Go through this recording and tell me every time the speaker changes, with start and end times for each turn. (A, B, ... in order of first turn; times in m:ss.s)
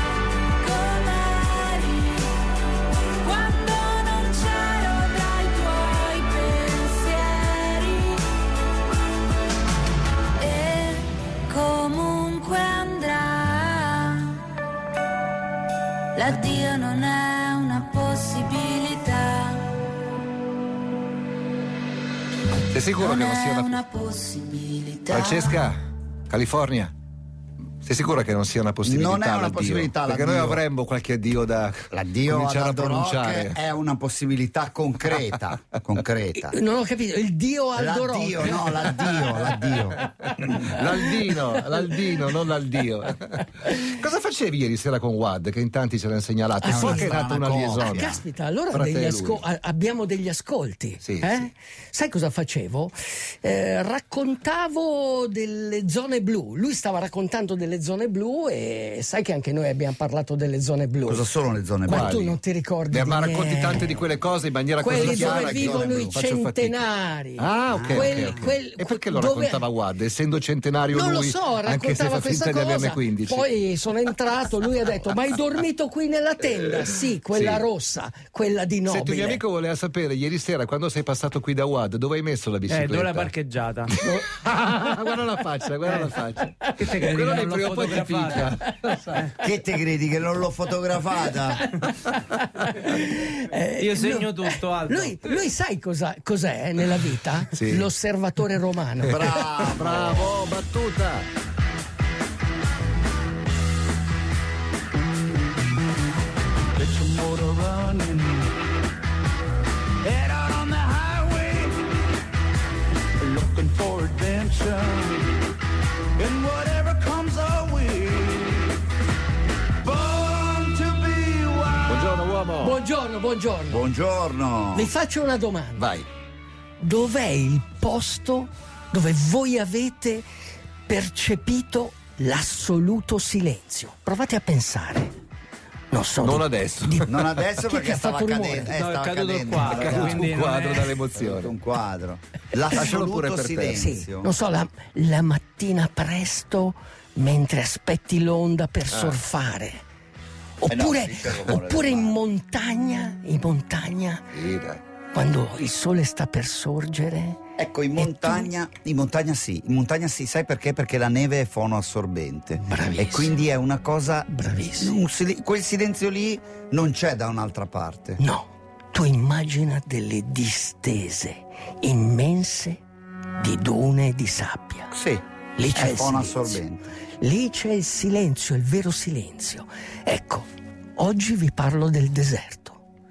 0:00.6-0:02.4 A
0:03.1-0:08.3 A
0:10.4-0:14.5 A
0:16.1-0:19.8 A
0:22.7-0:23.8 B
0:22.9-0:25.6 A
0:25.1-0:26.9 B
0:27.8-0:33.6 B
0:28.8-0:30.6 C
0:31.9-0:36.6 C
0:36.3-0:39.7 D
0:37.8-0:40.7 C
0:39.8-0:48.2 B
0:40.5-0:41.9 D
0:46.6-0:47.3 D
0:46.6-0:48.2 C
0:47.8-1:01.3 D
0:48.7-0:49.4 B
0:51.0-0:51.4 B
1:01.0-1:02.2 C
1:01.8-1:04.0 D
1:01.9-1:02.4 B
1:02.9-1:06.8 B
1:04.8-1:09.7 D
1:04.8-1:06.2 C
1:07.4-1:13.5 B
1:07.7-1:08.5 C
1:10.9-1:19.4 D
1:17.3-1:17.6 B
1:18.9-1:23.3 B
1:22.7-1:23.9 E
1:23.9-1:29.4 B
1:24.0-1:24.2 D
1:26.9-1:28.4 E
1:29.4-1:31.7 C
1:31.3-1:39.4 D
1:33.8-1:35.0 E
1:37.5-1:37.9 C
1:39.1-1:40.3 C
1:39.1-1:41.3 B
1:46.8-1:48.2 C
1:47.0-1:48.3 F
1:50.1-1:51.7 F
1:50.2-1:50.9 C
1:53.3-1:55.0 C
1:53.3-1:54.9 F
1:56.2-1:58.3 C
1:56.3-1:58.3 F
1:59.9-2:01.7 F
1:59.9-2:01.7 C
2:01.8-2:02.8 B
2:02.6-2:03.9 D
2:03.7-2:04.9 C
2:04.7-2:05.9 D
2:05.8-2:06.1 B
2:06.8-2:10.3 D
2:10.9-2:15.1 D
2:15.9-2:18.8 D
2:16.2-2:17.4 B
2:17.1-2:20.3 C
2:18.8-2:20.8 E
2:19.5-2:21.5 B
2:19.8-2:20.9 A
2:21.1-2:24.3 C
2:22.7-2:23.9 B
2:23.7-2:29.8 D
2:28.9-2:29.2 B
2:30.6-2:34.3 D
2:30.7-2:32.2 C
2:34.3-2:34.8 B
2:35.1-2:37.4 D
2:37.6-2:48.2 C
2:38.0-2:38.5 D
2:42.7-2:43.4 D
2:44.3-2:45.0 D
2:48.2-2:52.8 D
2:53.4-2:54.9 D
2:54.9-2:56.9 C
2:55.6-2:56.6 D
2:57.2-3:02.8 D